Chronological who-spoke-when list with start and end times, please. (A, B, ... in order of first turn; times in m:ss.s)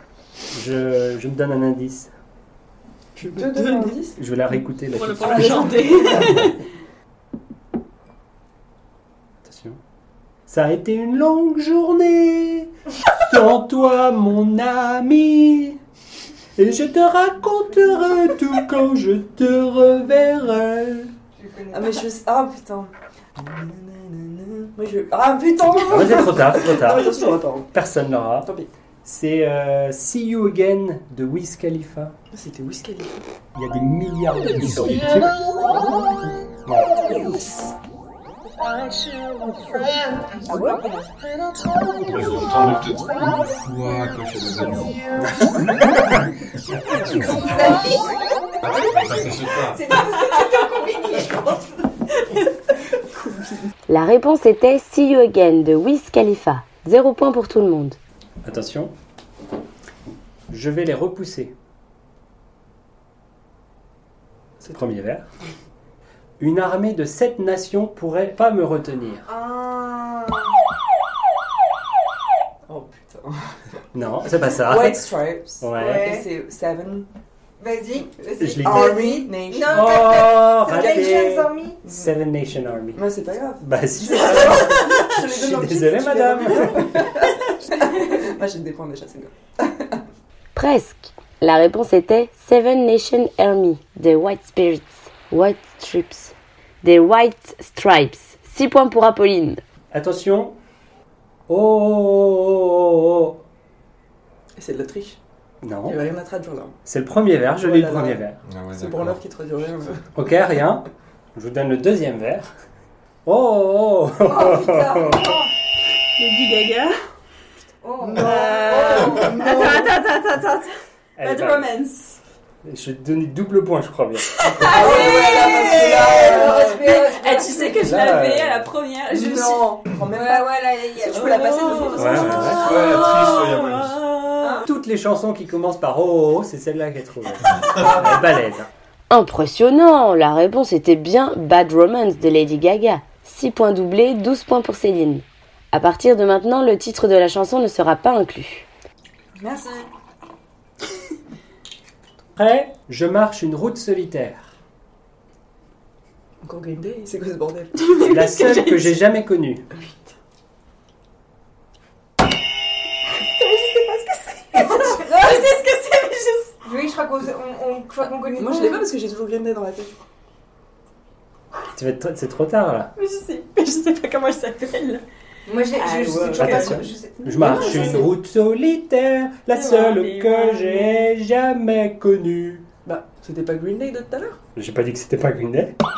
0:00.5-0:02.1 A
0:03.2-0:04.2 B
0:03.3-0:03.9 C
0:04.2-0:06.5 A
0:04.9-0:06.6 C
0:05.2-0:06.5 B
0:09.4-0:09.8 A
0:10.5-0:15.8 A
0:16.6-0:21.1 A
0:21.4-0:22.1 D
0:21.7-0:27.7 B
0:25.9-0:28.5 A
0:28.4-0:28.7 B
0:29.0-0:32.2 A
0:32.3-0:33.3 B
0:33.6-0:35.4 A
0:36.7-0:37.0 A
0:40.3-0:41.1 D
0:42.1-0:45.1 E
0:47.2-0:48.1 D
0:48.6-0:49.8 E
0:49.1-0:51.9 D
0:50.2-0:51.0 C
0:53.9-0:58.0 F
0:58.4-0:58.9 A
1:00.5-1:01.5 A
1:04.7-1:05.3 A
1:06.4-1:09.3 A
1:09.3-1:10.5 D
1:12.7-1:13.5 B
1:13.9-1:16.1 A
1:14.5-1:17.1 B
1:15.8-1:16.3 D
1:17.6-1:21.8 D
1:18.0-1:21.2 B
1:18.4-1:23.0 A
1:22.9-1:30.0 B
1:23.6-1:27.1 A
1:30.6-1:39.6 F
1:39.9-1:40.6 A
1:41.5-1:43.4 A
1:44.6-1:45.2 B
1:45.6-1:46.0 A
1:45.8-1:46.8 B
1:46.8-1:48.4 A
1:47.5-1:50.1 B
1:48.4-1:49.2 E
1:50.1-1:52.5 A
1:53.2-1:55.4 A
1:54.2-1:55.5 D
1:56.2-1:56.9 C
1:57.8-1:59.7 D
1:58.0-2:00.0 B
1:58.2-2:02.2 C
2:01.2-2:01.7 A
2:02.6-2:04.9 A
2:04.4-2:09.9 C
2:04.6-2:07.0 B
2:04.7-2:07.8 D
2:07.8-2:08.7 A
2:09.1-2:12.7 B
2:10.1-2:12.7 D
2:11.0-2:14.7 C
2:12.0-2:12.6 A
2:12.1-2:14.0 E
2:14.4-2:14.7 D
2:14.6-2:18.7 A
2:19.1-2:28.7 F
2:29.4-2:29.9 B
2:32.4-2:34.5 A
2:36.4-2:38.0 B
2:37.8-2:39.0 C
2:38.0-2:39.7 A
2:43.1-2:46.5 C
2:45.0-2:45.2 B
2:46.6-2:48.9 D
2:48.3-2:50.0 B
2:51.7-2:52.9 A
2:53.0-2:55.0 C
2:55.5-2:58.1 D
2:55.8-2:58.1 C
2:56.0-2:56.8 B
2:56.4-3:02.7 A
2:57.4-2:58.0 B
2:59.5-3:01.1 C
3:02.8-3:04.4 B
3:04.6-3:05.8 A